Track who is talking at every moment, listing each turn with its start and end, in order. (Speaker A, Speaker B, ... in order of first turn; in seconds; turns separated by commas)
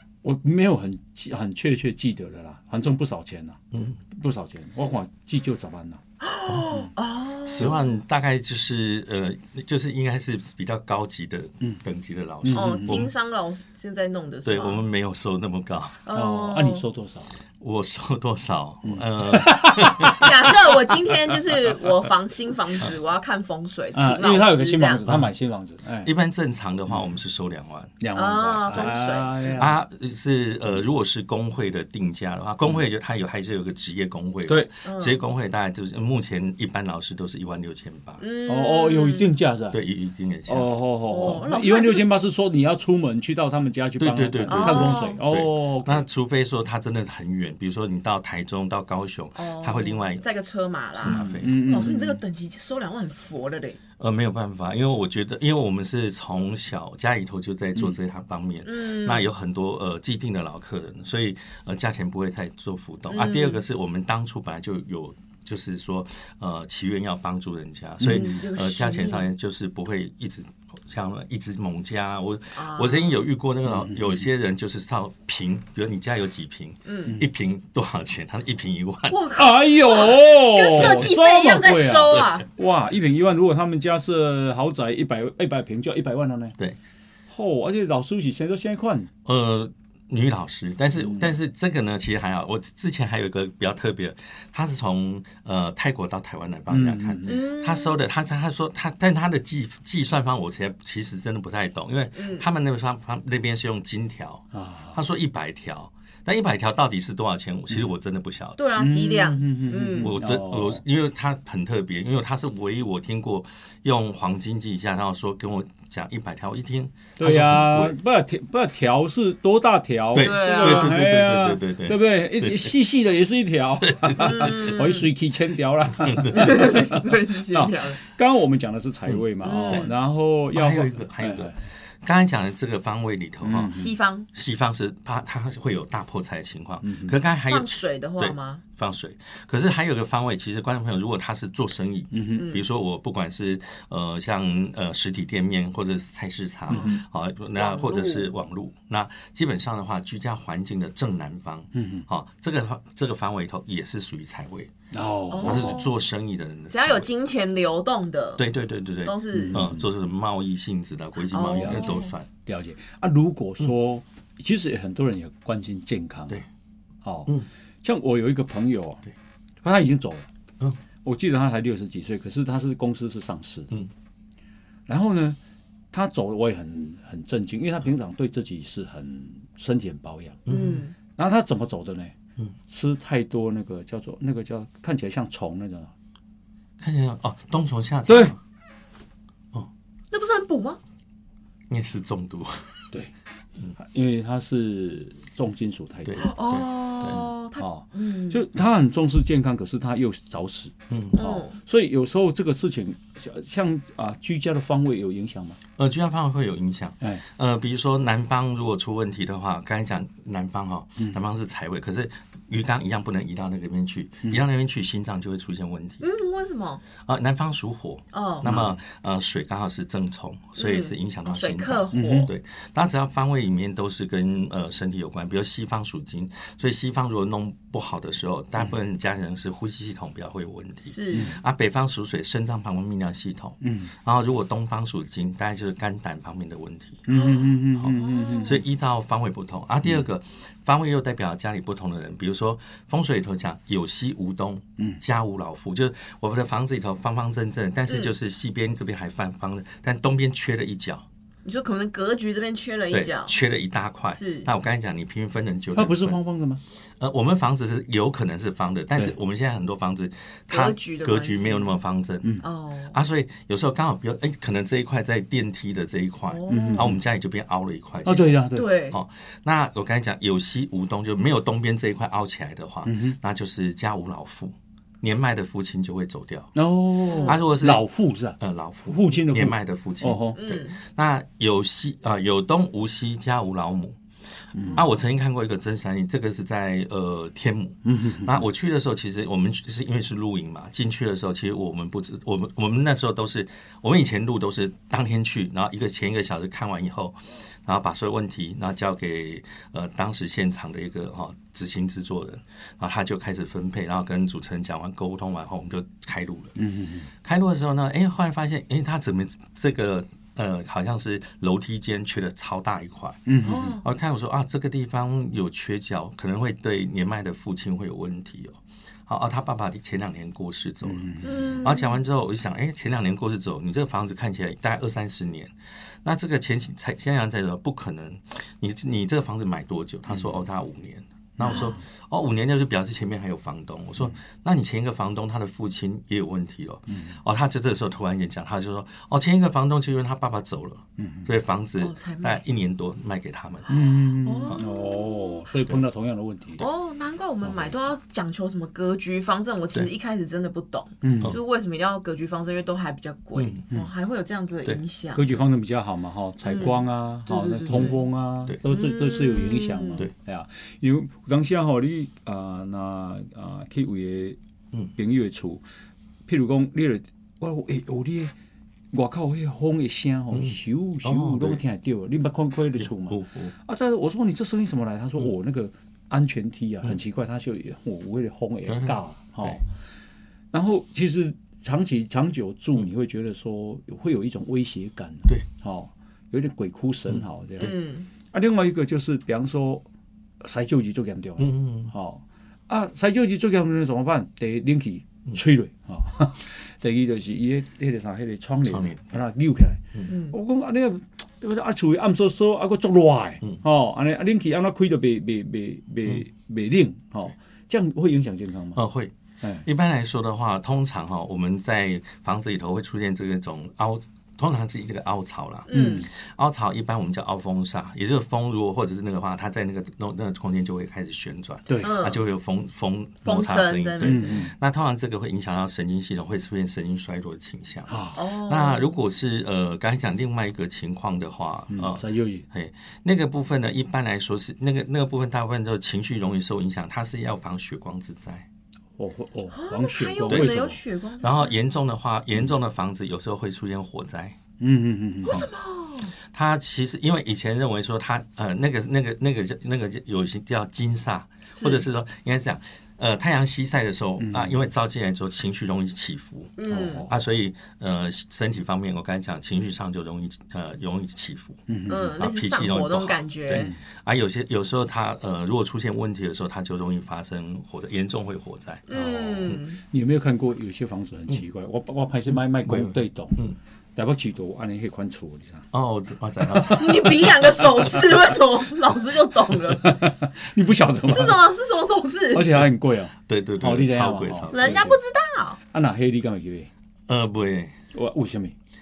Speaker A: 0.2-3.6, Speaker B: 3.7-4.0, Speaker A: 4.1-6.0, Speaker C: 6.2-7.9, Speaker B: 6.5-6.8, Speaker B: 7.5-13.1, Speaker A: 12.4-13.1, Speaker C: 12.5-14.8, Speaker B: 14.4-16.0, Speaker C: 16.0-16.8, Speaker A: 16.1-17.4, Speaker B: 17.6-20.5, Speaker A: 18.9-20.3, Speaker C: 19.9-25.0, Speaker A: 23.9-26.1, Speaker B: 26.0-27.9, Speaker A: 28.0-29.7, Speaker C: 28.1-29.5, Speaker B: 29.5-38.2, Speaker C: 34.8-35.2, Speaker C: 38.2-39.3, Speaker A: 38.5-39.8, Speaker B: 39.7-41.5, Speaker A: 40.5-46.1, Speaker C: 41.1-42.1, Speaker B: 44.0-50.2, Speaker C: 44.5-45.2, Speaker C: 49.4-53.8, Speaker B: 51.0-51.5, Speaker A: 51.0-52.2, Speaker B: 54.0-79.2, Speaker C: 58.6-59.2, Speaker C: 63.1-63.6, Speaker A: 68.0-68.4, Speaker C: 68.1-69.3, Speaker C: 72.6-73.2, Speaker A: 73.7-74.2, Speaker C: 76.9-77.2, Speaker C: 79.1-82.5, Speaker A: 79.3-86.6, Speaker B: 80.8-81.1, Speaker A: 87.3-89.1, Speaker B: 89.2-108.6, Speaker A: 91.0-91.3, Speaker A: 96.7-97.4, Speaker C: 97.2-98.0, Speaker C: 102.2-102.5, Speaker A: 104.5-105.0, Speaker C: 108.6-110.1, Speaker A: 108.8-110.8, Speaker B: 110.0-118.0, Speaker A: 117.2-131.5, Speaker B: 120.1-122.7, Speaker C: 120.2-121.0, Speaker B: 123.8-124.8, Speaker C: 124.2-125.1, Speaker B: 126.0-126.7, Speaker C: 126.3-128.0, Speaker B: 129.1-129.9, Speaker C: 129.4-129.9, Speaker B: 130.5-133.7, Speaker A: 133.4-133.9, Speaker C: 133.7-134.3, Speaker B: 134.3-154.7, Speaker A: 136.8-137.1, Speaker C: 137.5-138.6, Speaker A: 142.1-142.5, Speaker C: 142.4-142.6, Speaker A: 146.7-147.0, Speaker C: 147.6-148.3, Speaker A: 151.7-152.1, Speaker A: 154.9-155.8, Speaker C: 155.3-155.9, Speaker B: 155.4-157.1, Speaker C: 156.7-158.4, Speaker B: 158.4-162.3, Speaker C: 159.0-159.6, Speaker A: 159.3-159.9, Speaker C: 161.3-162.1, Speaker A: 161.5-166.4, Speaker A: 167.0-167.3, Speaker A: 167.8-169.0, Speaker A: 169.6-170.3, Speaker A: 171.0-173.7, Speaker A: 174.9-175.4, Speaker A: 175.9-180.4, Speaker B: 180.5-180.8, Speaker C: 180.5-180.9, Speaker A: 181.1-182.1, Speaker A: 182.7-185.9, Speaker B: 186.8-188.4, Speaker A: 188.1-188.3, Speaker C: 190.1-190.8, Speaker B: 191.7-192.8, Speaker A: 193.8-196.3, Speaker B: 196.0-197.3, Speaker C: 196.2-198.4, Speaker A: 197.6-205.6, Speaker B: 200.9-201.2, Speaker C: 201.1-201.5, Speaker B: 205.8-216.1, Speaker C: 216.0-216.8, Speaker B: 217.0-237.1, Speaker C: 218.1-218.5, Speaker A: 218.5-218.8, Speaker C: 220.6-222.3, Speaker A: 221.9-222.3, Speaker C: 230.9-231.4, Speaker A: 231.1-231.4, Speaker A: 233.6-233.9, Speaker A: 237.1-238.6, Speaker C: 237.1-238.6, Speaker B: 237.8-251.0, Speaker C: 251.4-253.3, Speaker B: 252.9-256.2, Speaker C: 254.1-254.5, Speaker A: 255.8-256.6, Speaker B: 256.8-262.3, Speaker C: 260.5-261.8, Speaker C: 262.4-262.9, Speaker B: 262.9-276.5, Speaker C: 266.3-266.9, Speaker A: 266.5-267.0, Speaker A: 268.0-268.7, Speaker C: 268.5-269.0, Speaker A: 272.9-273.1, Speaker A: 276.5-280.4, Speaker C: 277.1-277.4, Speaker B: 277.2-277.9, Speaker B: 278.4-284.0, Speaker C: 280.4-280.8, Speaker A: 284.5-284.8, Speaker B: 284.7-306.5, Speaker A: 287.9-288.4, Speaker A: 306.6-307.1, Speaker B: 307.2-325.5, Speaker A: 313.2-313.8, Speaker C: 313.4-313.8, Speaker A: 320.8-321.5, Speaker C: 321.2-322.0, Speaker B: 326.0-343.8, Speaker A: 331.4-331.8, Speaker C: 331.4-331.7, Speaker A: 336.9-337.1, Speaker A: 341.0-341.3, Speaker C: 341.8-342.4, Speaker A: 343.7-346.6, Speaker C: 344.2-345.4, Speaker C: 346.6-355.2, Speaker A: 351.0-351.4, Speaker B: 353.4-353.6, Speaker A: 355.1-364.4, Speaker C: 356.4-358.0, Speaker C: 358.7-360.0, Speaker A: 365.0-365.6, Speaker A: 366.2-368.3, Speaker A: 368.9-379.6, Speaker B: 370.3-371.6, Speaker B: 372.8-373.5, Speaker B: 378.7-379.6, Speaker A: 380.5-387.8, Speaker C: 387.6-388.1, Speaker A: 388.3-389.9, Speaker A: 390.4-408.8, Speaker B: 391.4-391.9, Speaker B: 398.6-399.2, Speaker C: 400.1-400.4, Speaker B: 408.8-438.5, Speaker C: 415.7-416.1, Speaker A: 415.7-416.1, Speaker A: 421.7-421.9, Speaker C: 421.8-422.2, Speaker C: 423.2-424.4, Speaker A: 424.0-424.5, Speaker A: 427.9-428.2, Speaker C: 428.1-428.9, Speaker A: 431.7-432.5, Speaker A: 439.0-440.8, Speaker C: 439.5-441.5, Speaker B: 440.3-440.5, Speaker B: 441.2-444.4, Speaker A: 444.6-445.5, Speaker C: 445.2-446.1, Speaker B: 446.3-461.6, Speaker C: 451.6-451.8, Speaker A: 454.2-454.6, Speaker C: 456.6-457.1, Speaker A: 456.7-457.1, Speaker A: 461.7-462.2, Speaker C: 461.9-463.7, Speaker B: 462.2-468.8, Speaker A: 463.5-463.8, Speaker C: 468.9-469.8, Speaker A: 468.9-473.4, Speaker B: 472.6-473.6, Speaker A: 474.0-475.7, Speaker B: 475.7-477.9, Speaker A: 476.5-476.8, Speaker C: 476.7-479.9, Speaker A: 479.7-481.4, Speaker C: 481.1-482.5, Speaker A: 482.3-485.0, Speaker B: 483.3-485.0, Speaker C: 484.5-485.6, Speaker A: 485.7-486.7, Speaker B: 487.1-487.8, Speaker A: 487.9-488.5